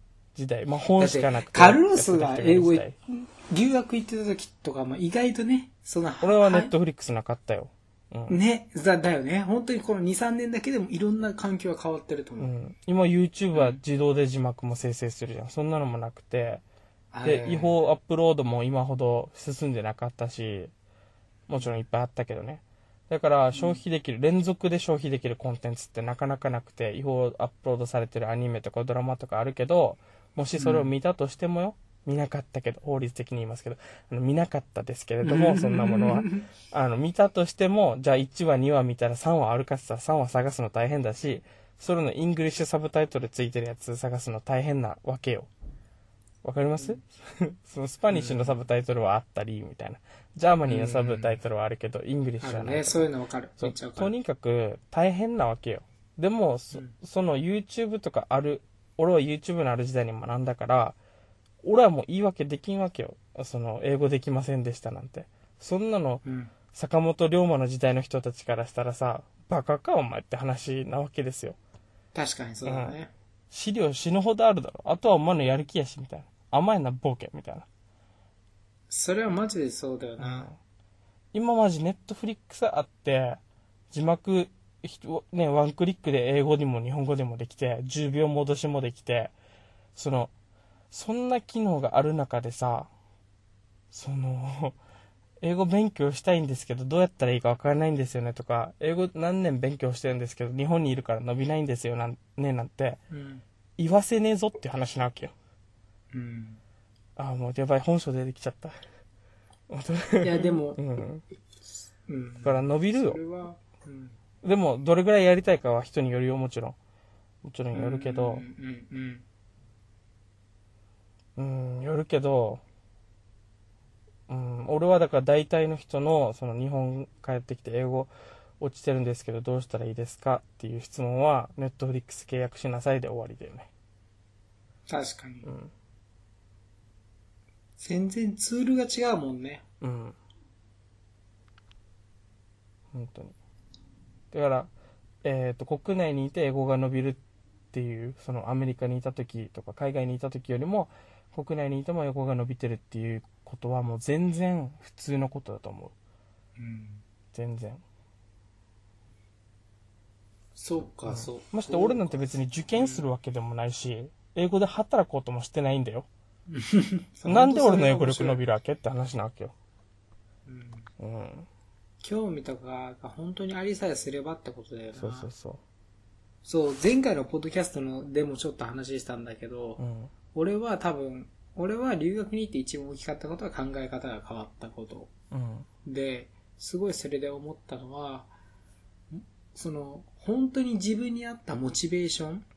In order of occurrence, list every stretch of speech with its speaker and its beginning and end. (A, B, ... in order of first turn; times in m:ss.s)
0:00.4-0:02.9 A
0:01.0-0:06.7 B
0:06.2-0:08.4 A
0:08.3-0:12.5 B
0:12.4-0:16.6 A
0:17.1-0:17.8 B
0:17.2-0:20.7 A
0:21.5-0:45.5 A
0:23.5-0:23.8 B
0:30.6-0:30.9 B
0:35.2-0:36.5 B
0:46.4-1:01.0 A
0:48.1-0:48.5 B
0:50.6-0:51.4 B
0:52.4-0:54.1 B
1:01.6-1:11.6 A
1:06.2-1:06.5 B
1:12.1-1:13.1 B
1:12.7-1:13.0 A
1:13.5-1:17.7 A
1:18.9-1:20.5 B
1:20.2-1:20.6 A
1:21.3-1:23.4 A
1:23.9-1:29.3 A
1:30.0-1:30.3 A
1:30.9-1:32.9 A
1:33.9-1:34.8 A
1:35.4-1:43.0 A
1:43.1-1:43.4 B
1:43.8-1:45.3 A
1:46.1-1:46.6 B
1:47.2-1:48.8 A
1:49.7-1:51.2 A
1:50.2-1:50.8 B
1:52.1-1:54.2 B
1:52.4-1:53.2 A
1:54.4-1:56.8 A
1:57.4-1:58.4 A
1:57.7-1:59.2 B
2:01.4-2:02.6 A
2:04.3-2:13.7 A
2:14.9-2:15.5 B
2:15.4-2:15.7 A
2:17.8-2:19.6 B
2:19.8-2:20.2 A
2:22.9-2:23.4 A
2:24.3-2:24.7 A
2:25.2-2:27.2 A
2:27.7-2:35.9 A
2:36.6-2:37.0 B
2:37.3-2:37.8 A
2:40.6-2:43.1 B
2:41.1-2:46.1 A
2:46.5-2:48.4 B
2:47.3-2:49.5 A
2:50.5-2:50.9 B
2:51.0-2:51.5 A
2:52.0-2:55.3 B
2:55.0-2:55.6 A
2:56.4-2:59.8 B
2:59.8-3:00.1 A
3:00.3-3:05.1 B
3:05.3-3:05.7 A
3:05.8-3:08.3 B
3:09.1-3:12.4 B